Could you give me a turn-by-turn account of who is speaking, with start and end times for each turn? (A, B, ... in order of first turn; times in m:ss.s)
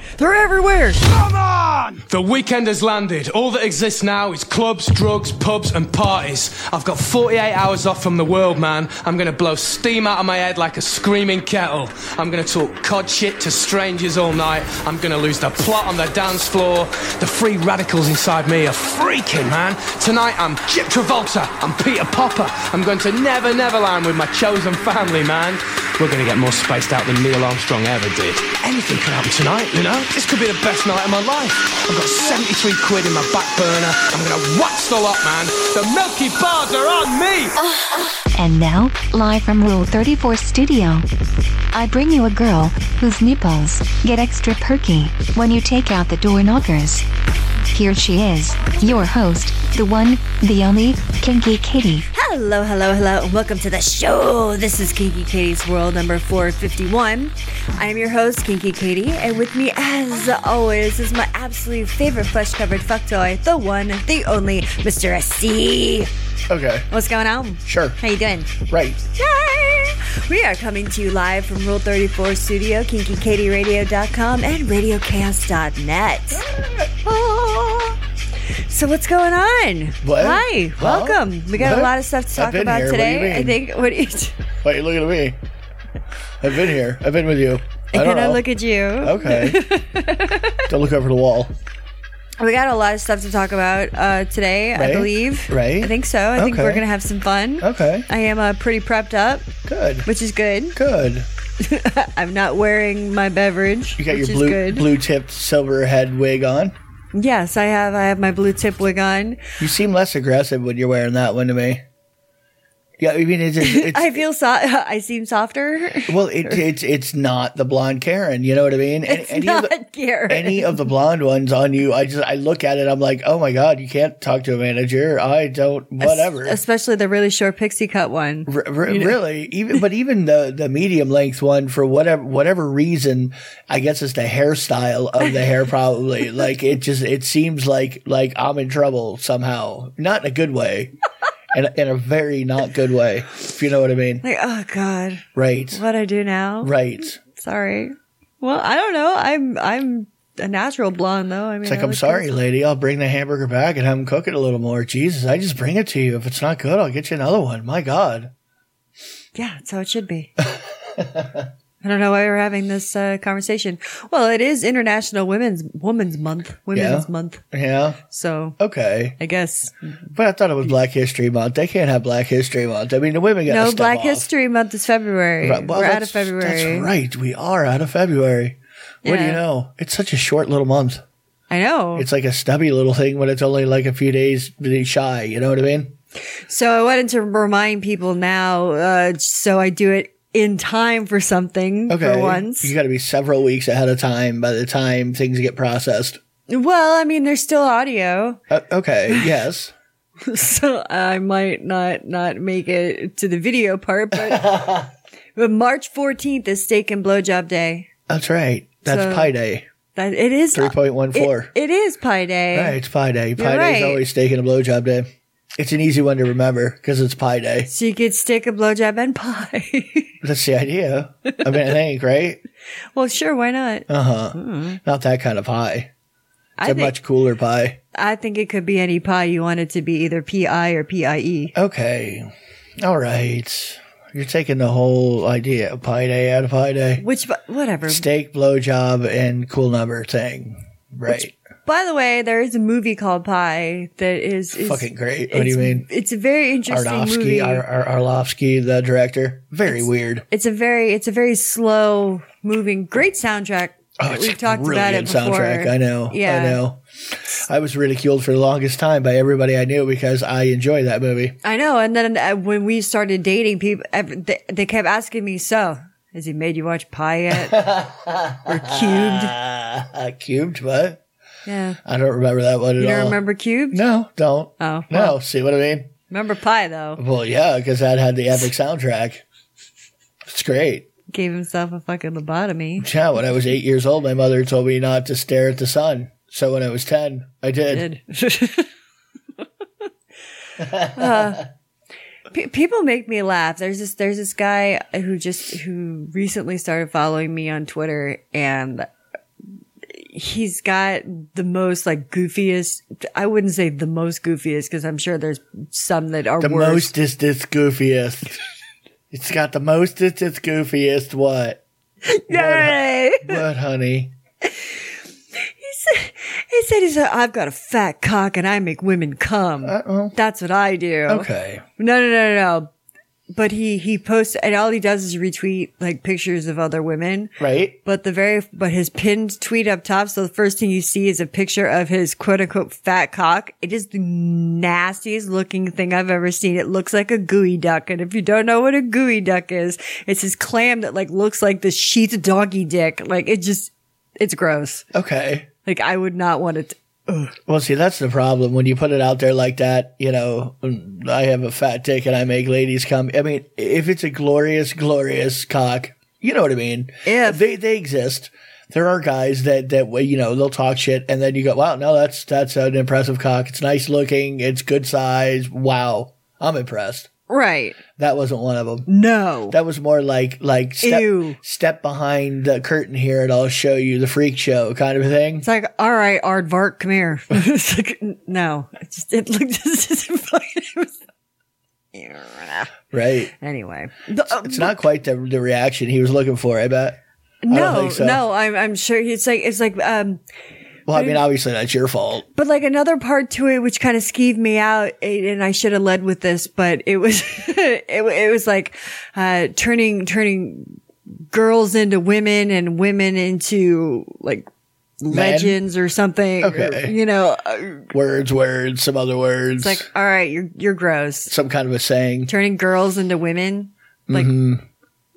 0:00.2-0:01.1 A
0:01.0-0:37.6 B
0:38.3-0:41.1 C
0:41.7-0:47.0 C
0:47.7-0:52.1 C
0:52.1-1:06.1 A
1:06.5-1:06.9 D
1:06.9-1:08.6 A
1:07.6-1:08.0 D
1:08.7-1:09.0 D
1:09.1-1:16.4 A
1:16.3-1:16.9 D
1:17.0-1:18.0 A
1:18.5-1:24.4 A
1:20.0-1:23.6 D
1:24.6-1:25.4 D
1:26.4-1:28.4 D
1:27.9-1:30.6 A
1:29.0-1:29.6 D
1:30.7-1:31.5 D
1:32.4-1:39.5 A
1:34.7-1:36.8 D
1:37.6-1:38.1 D
1:39.6-1:40.1 D
1:40.0-1:40.8 A
1:40.7-1:41.3 D
1:41.6-1:44.9 A
1:44.0-1:46.7 D
1:47.1-1:49.4 A
1:49.6-1:51.8 D
1:53.0-1:54.2 D
1:53.6-1:56.6 A
1:56.1-1:59.7 D
1:59.1-2:00.8 A
2:00.3-2:06.6 D
2:06.0-2:09.2 A
2:08.5-2:20.9 D
2:21.5-2:24.2 D
2:24.2-2:32.3 A
2:25.3-2:25.8 D
2:26.6-2:27.2 D
2:31.6-2:38.3 D
2:39.3-2:40.3 A
2:41.0-2:41.4 D
2:41.8-2:47.4 A
2:46.7-2:48.0 D
2:48.1-2:48.6 A
2:48.6-2:49.1 D
2:49.2-2:49.8 A
2:50.1-2:54.3 D
2:53.4-2:56.9 A
2:55.4-3:01.0 D
2:59.0-2:59.4 A
3:01.5-3:02.0 A
3:01.9-3:06.0 D
3:06.5-3:12.7 A
3:11.9-3:16.2 D
3:16.5-3:18.4 A
3:18.5-3:19.7 D
3:20.2-3:24.5 A
3:24.2-3:24.9 D
3:25.4-3:27.9 A
3:28.1-3:29.6 D
3:28.8-3:29.3 A
3:29.9-3:32.8 A
3:30.5-3:31.5 D
3:32.5-3:37.7 D
3:33.4-3:34.0 A
3:37.7-3:40.1 A
3:40.2-3:42.4 D
3:42.9-3:44.8 A
3:43.9-3:45.9 D
3:46.6-3:46.9 A
3:46.6-3:47.8 D
3:47.9-3:51.5 A
3:51.5-3:52.3 D
3:52.8-3:57.0 D
3:57.0-3:58.0 A
3:57.9-4:01.3 D
4:01.1-4:07.6 A
4:04.6-4:05.8 D
4:06.7-4:10.2 D
4:10.3-4:16.6 A
4:14.0-4:21.4 D
4:21.4-4:27.6 A
4:27.3-4:31.0 D
4:28.4-4:29.3 A
4:31.4-4:31.8 A
4:31.8-4:33.2 D
4:32.8-4:33.8 A
4:33.7-4:35.9 D
4:34.6-4:35.2 A
4:36.1-4:37.0 A
4:37.0-4:39.2 D
4:40.2-4:40.9 D
4:41.1-4:42.9 A
4:42.8-4:47.8 D
4:47.7-4:48.7 A
4:50.6-4:51.4 D
4:50.8-4:51.4 A
4:52.3-4:58.9 A
4:59.9-5:06.9 A
5:06.4-5:08.4 D
5:09.1-5:11.6 D
5:12.0-5:13.4 A
5:12.3-5:14.1 D
5:15.4-5:22.7 A
5:19.6-5:20.2 D
5:21.1-5:21.6 D
5:23.3-5:44.8 A
5:27.4-5:27.8 D
5:44.9-5:45.5 D
5:45.6-5:47.3 A
5:47.5-6:07.1 D
5:57.0-5:57.4 A
6:07.3-6:07.8 A
6:08.0-6:08.9 D
6:08.9-6:09.5 A
6:09.5-6:15.5 D
6:10.8-6:11.4 A
6:15.4-6:21.0 A
6:21.9-6:22.7 A
6:22.9-6:23.3 D
6:23.3-6:24.7 A
6:24.2-6:27.0 D
6:27.4-6:30.2 A
6:27.5-6:28.2 D
6:30.9-6:32.2 D
6:30.9-6:31.2 A
6:32.3-6:40.8 A
6:41.3-6:44.5 A
6:45.0-6:47.9 A
6:45.1-6:45.6 D
6:46.4-6:46.9 D
6:47.9-6:49.9 D
6:49.6-6:51.3 A
6:51.3-6:52.3 D
6:52.3-6:54.3 A
6:54.1-6:54.6 D